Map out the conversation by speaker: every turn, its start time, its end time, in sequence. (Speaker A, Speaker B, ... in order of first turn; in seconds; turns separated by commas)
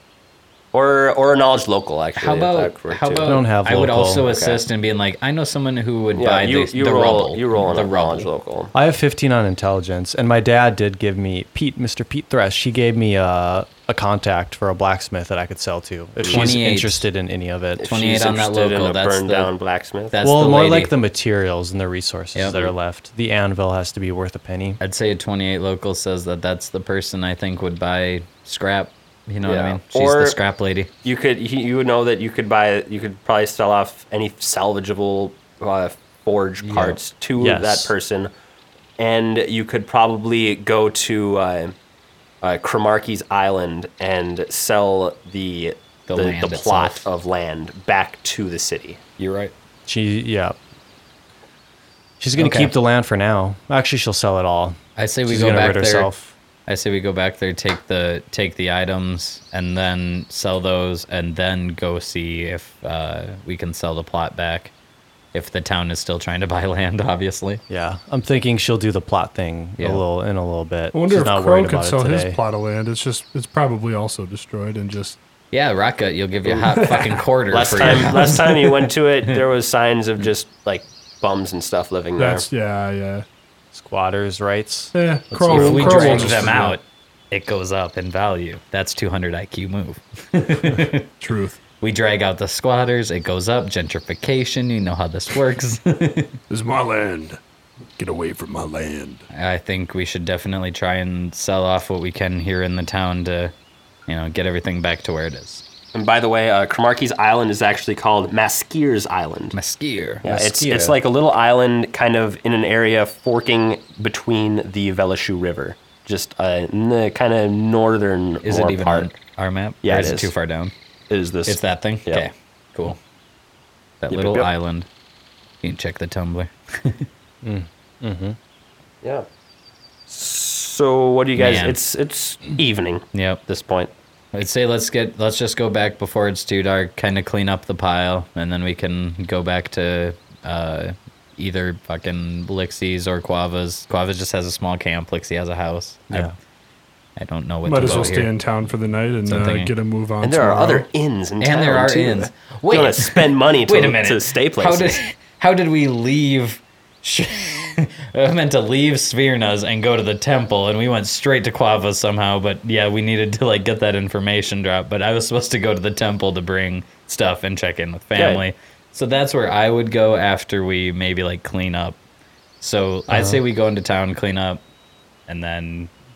Speaker A: 0.7-3.5, Speaker B: 2.2-8.3, Speaker C: 3.2-4.3, Speaker A: 4.2-4.6, Speaker A: 6.2-8.7, Speaker C: 8.7-17.9, Speaker B: 16.2-17.1, Speaker A: 17.8-20.2, Speaker B: 17.8-19.5, Speaker B: 20.1-20.9, Speaker C: 20.2-24.8, Speaker B: 22.3-22.7, Speaker B: 24.8-30.9, Speaker A: 29.4-30.4, Speaker A: 31.0-38.3, Speaker B: 36.6-37.0, Speaker C: 37.4-37.9, Speaker A: 39.0-41.7, Speaker A: 42.4-49.0, Speaker B: 46.1-47.1, Speaker B: 49.2-49.5, Speaker C: 49.9-50.6, Speaker C: 52.2-56.3, Speaker B: 52.4-52.7, Speaker B: 55.0-56.1, Speaker B: 56.7-64.7, Speaker B: 65.3-67.6, Speaker C: 67.7-72.4, Speaker D: 70.9-75.2, Speaker B: 75.5-78.9, Speaker D: 76.5-77.2, Speaker A: 77.5-82.5, Speaker C: 77.8-78.2, Speaker D: 82.2-83.2, Speaker C: 83.7-86.7, Speaker D: 84.9-86.7, Speaker B: 85.5-91.1, Speaker D: 91.2-91.6, Speaker B: 91.8-96.4, Speaker E: 96.5-97.4, Speaker E: 98.0-99.2, Speaker B: 99.3-103.5, Speaker B: 104.1-105.6, Speaker A: 105.9-109.5, Speaker B: 109.5-110.2, Speaker A: 110.2-119.1, Speaker C: 110.2-111.0, Speaker B: 118.4-120.7, Speaker A: 119.8-120.3, Speaker A: 121.1-122.2, Speaker B: 121.5-123.0, Speaker B: 124.0-124.9, Speaker A: 124.1-124.5, Speaker B: 125.6-127.1, Speaker C: 127.4-128.4, Speaker A: 130.1-133.9, Speaker B: 131.4-131.8, Speaker B: 133.1-133.4, Speaker B: 134.3-146.3, Speaker B: 147.2-148.4, Speaker D: 147.6-150.8, Speaker B: 149.2-149.7, Speaker A: 150.2-155.0, Speaker B: 151.4-172.0, Speaker A: 168.2-168.4, Speaker B: 172.6-174.6, Speaker C: 173.1-173.4, Speaker B: 175.3-175.9